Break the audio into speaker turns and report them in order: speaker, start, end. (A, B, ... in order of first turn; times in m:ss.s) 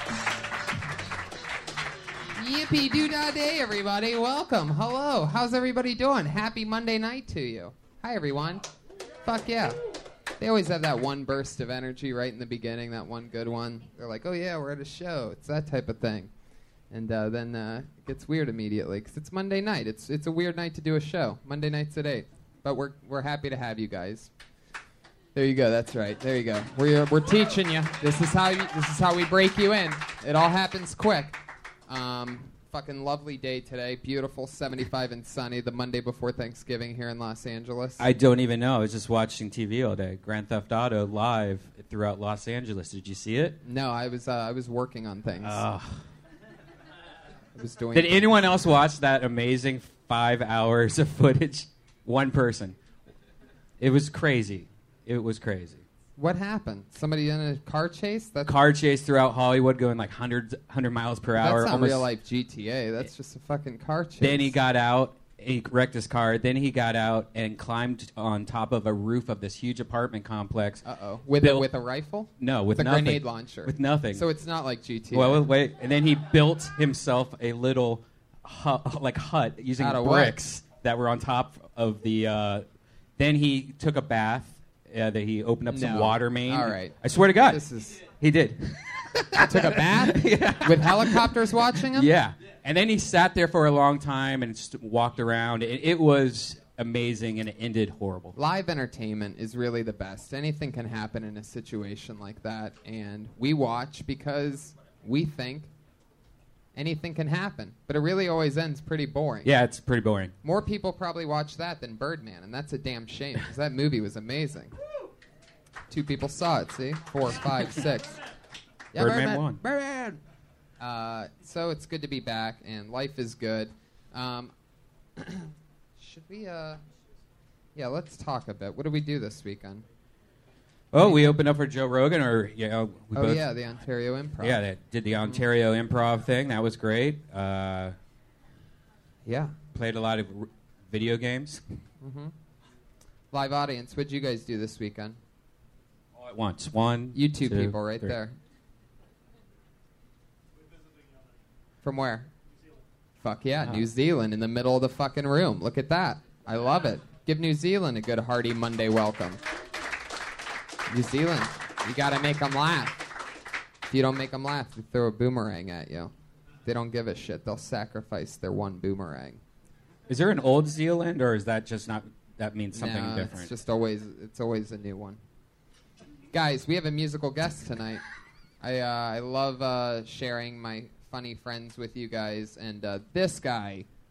0:02.4-0:08.7 A
0:09.2-0:09.8 A
0:10.4-0:16.3 A
0:16.9-0:24.3 A
0:25.3-0:38.0 A
0:38.0-0:43.6 B
0:43.6-0:45.6 A
0:45.4-0:46.0 B
0:47.6-0:48.4 A
0:47.9-0:52.8 B
0:53.8-0:55.8 B
0:56.2-0:58.5 A
0:58.4-1:02.1 B
1:01.4-1:04.6 A
1:04.2-1:10.8 B
1:10.8-1:15.5 A
1:11.4-1:11.7 B
1:12.4-1:14.2 B
1:15.1-1:22.6 B
1:19.8-1:20.4 A
1:23.2-1:31.3 B
1:25.7-1:28.0 A
1:29.4-1:32.1 A
1:31.9-1:38.4 B
1:38.3-1:45.7 A
1:46.8-1:49.5 A
1:49.4-1:50.3 B
1:50.4-1:54.7 A
1:55.9-1:58.2 A
1:58.9-2:00.2 A
1:59.0-1:59.6 B
2:00.8-2:04.5 A
2:05.2-2:06.8 A
2:07.8-2:09.8 A
2:10.9-2:13.5 B
2:10.9-2:11.4 A
2:13.1-2:14.6 A
2:14.4-2:17.9 B
2:19.2-2:19.6 A
2:19.7-2:21.6 B
2:22.0-2:22.3 A
2:23.3-2:25.2 A
2:26.2-2:28.2 B
2:27.1-2:28.4 A
2:31.8-2:32.3 A
2:33.2-2:39.4 A
2:40.9-2:43.0 A
2:43.9-2:46.1 A
2:46.6-2:49.4 A
2:50.1-2:53.5 B
2:52.7-2:55.2 A
2:56.3-2:58.0 A
2:58.6-3:03.9 A